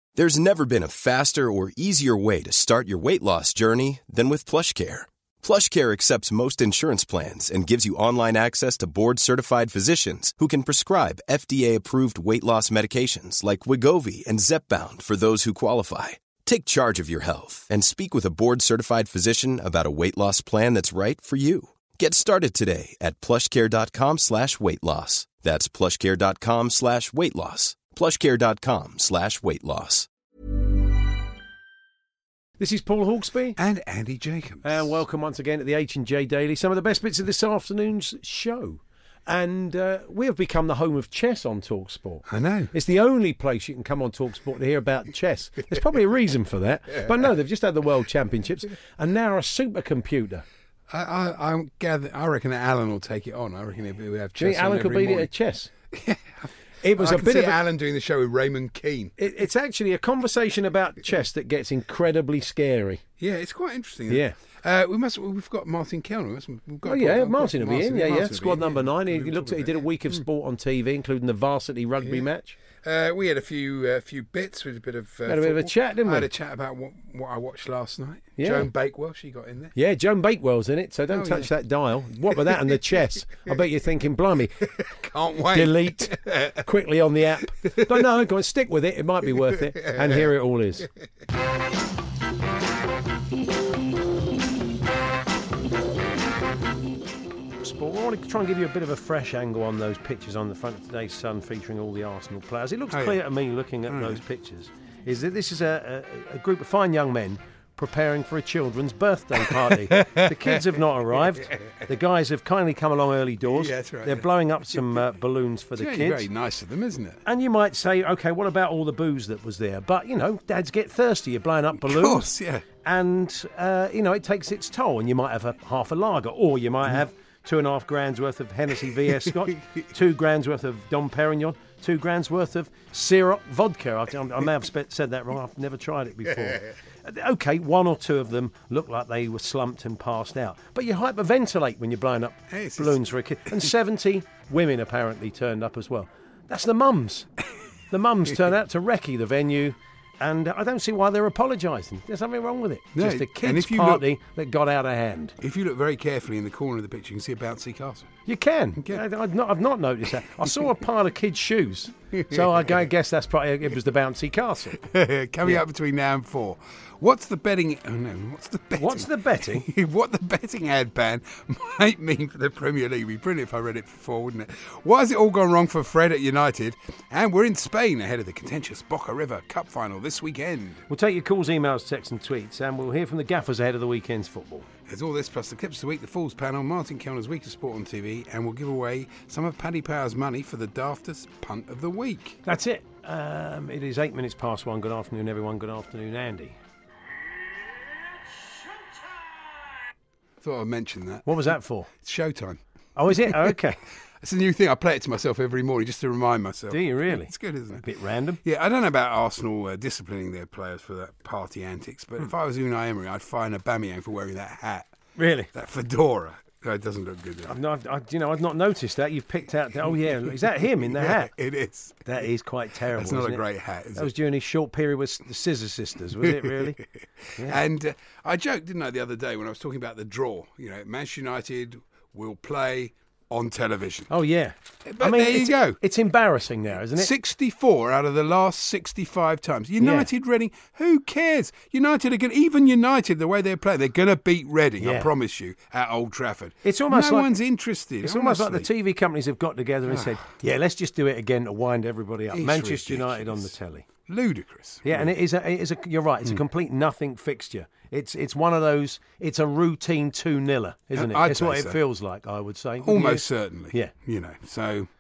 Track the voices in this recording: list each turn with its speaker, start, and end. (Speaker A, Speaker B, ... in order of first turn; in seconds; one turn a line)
Speaker A: 0.2-30.1
Speaker B: 32.6-33.6
Speaker C: 33.6-34.9
Speaker B: 34.6-50.5
Speaker C: 42.3-42.7
Speaker C: 50.9-55.3
Speaker B: 54.4-55.7
Speaker C: 55.9-59.2
Speaker B: 56.8-57.6
Speaker B: 59.2-63.0
Speaker C: 63.2-70.2
Speaker B: 64.1-64.3
Speaker B: 66.8-72.6
Speaker C: 72.0-79.8
Speaker B: 75.3-76.3
Speaker B: 78.4-78.7
Speaker B: 79.8-84.7
Speaker C: 81.1-81.5
Speaker C: 82.3-83.5
Speaker C: 84.7-86.7
Speaker B: 85.5-90.9
Speaker C: 87.6-88.1
Speaker C: 89.3-90.3
Speaker B: 97.6-116.2
Speaker C: 102.9-103.2
Speaker C: 103.9-104.2
Speaker C: 109.5-111.8
Speaker C: 113.5-115.0
Speaker C: 115.8-117.2
Speaker B: 117.2-122.3
Speaker C: 121.8-122.7
Speaker B: 122.8-147.3
Speaker C: 129.2-129.6
Speaker C: 136.4-136.7
Speaker C: 142.5-143.7
Speaker B: 147.9-155.3
Speaker C: 152.9-154.1
Speaker C: 155.4-158.2
Speaker B: 158.3-164.8
Speaker C: 162.1-162.9
Speaker C: 164.8-180.8
Speaker B: 168.8-169.7
Speaker B: 180.9-184.7
Speaker C: 184.9-192.4
Speaker B: 192.4-196.6
Speaker C: 200.4-201.3
Speaker B: 201.3-201.9
Speaker C: 202.0-202.6
Speaker B: 203.0-203.8
Speaker C: 203.1-203.5
Speaker C: 204.2-207.8
Speaker B: 206.7-208.4
Speaker C: 208.4-214.9
Speaker B: 215.2-215.5
Speaker C: 215.5-217.5
Speaker B: 217.5-221.3
Speaker C: 219.9-222.1
Speaker B: 222.1-223.4
Speaker C: 222.9-224.1
Speaker B: 224.0-226.8
Speaker C: 226.2-226.8
Speaker C: 227.4-234.1
Speaker B: 234.1-237.1
Speaker C: 234.9-235.8
Speaker C: 236.9-248.7
Speaker B: 239.8-240.1
Speaker B: 244.8-245.1
Speaker B: 246.6-247.3
Speaker B: 248.0-253.9
Speaker C: 249.9-250.3
Speaker C: 252.3-253.5
Speaker C: 254.1-255.1
Speaker B: 254.8-263.9
Speaker C: 260.9-261.8
Speaker C: 262.8-264.9